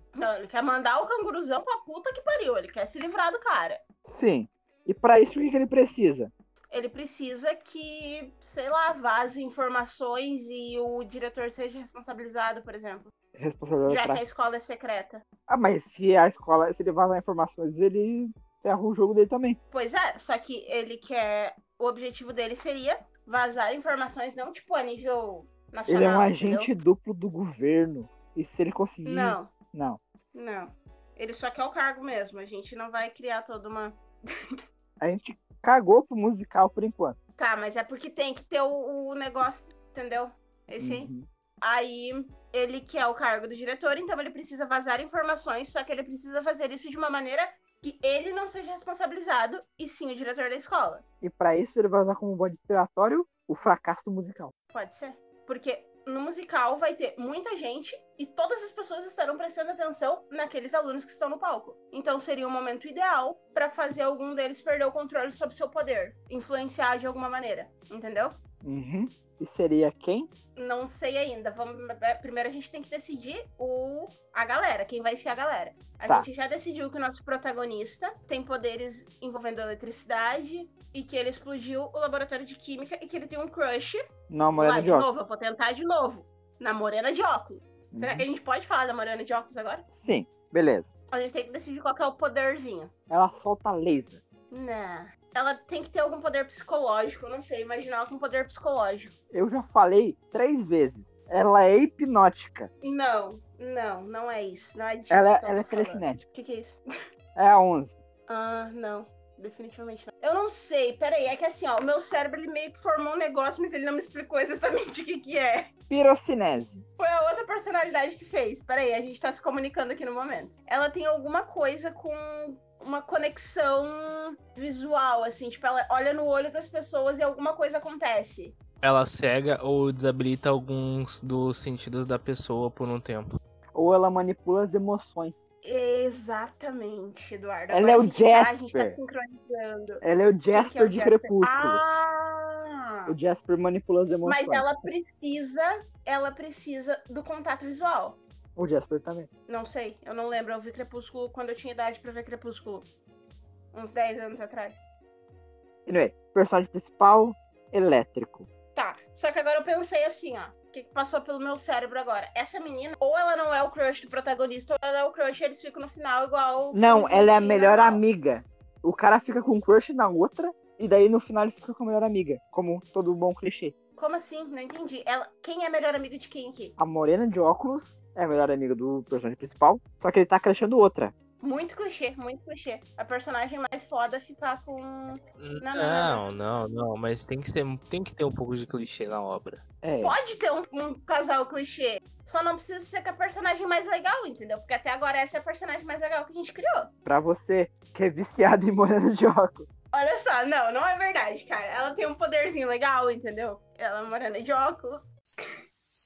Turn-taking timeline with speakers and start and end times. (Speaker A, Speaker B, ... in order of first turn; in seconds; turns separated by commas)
Speaker A: 0.1-3.8, Speaker B: 4.0-6.3, Speaker A: 6.7-13.1, Speaker B: 13.4-14.2, Speaker A: 13.9-15.2, Speaker B: 15.5-19.6, Speaker A: 19.7-26.7, Speaker B: 25.9-30.0, Speaker A: 29.0-29.5, Speaker A: 30.3-34.0, Speaker B: 35.0-37.2, Speaker A: 37.4-41.1, Speaker B: 40.8-41.2, Speaker A: 41.6-51.0, Speaker B: 51.2-54.5, Speaker A: 54.7-68.4, Speaker B: 68.6-70.3, Speaker A: 70.5-84.0, Speaker B: 84.3-85.1, Speaker A: 84.6-89.8, Speaker B: 87.9-88.2, Speaker B: 89.9-90.9, Speaker A: 91.1-92.9, Speaker B: 93.1-94.2, Speaker A: 94.5-99.1, Speaker B: 99.3-102.7, Speaker A: 102.8-106.8, Speaker B: 105.1-106.2, Speaker B: 107.3-108.0, Speaker A: 108.3-115.7, Speaker B: 115.9-116.8, Speaker A: 117.0-128.5, Speaker C: 128.8-133.3, Speaker B: 133.7-135.4, Speaker A: 135.6-140.0, Speaker B: 137.7-139.0, Speaker B: 140.0-141.8, Speaker A: 140.5-143.1, Speaker B: 143.1-144.7, Speaker A: 144.2-148.2, Speaker B: 148.6-149.3, Speaker A: 149.5-152.8, Speaker A: 153.7-154.9, Speaker B: 155.8-158.5, Speaker A: 158.7-168.0, Speaker B: 166.7-173.7, Speaker A: 174.0-176.7, Speaker B: 176.8-181.1, Speaker A: 181.4-186.2, Speaker C: 185.4-189.6, Speaker B: 189.8-190.2, Speaker A: 190.0-196.9, Speaker B: 197.0-199.7, Speaker A: 199.9-205.5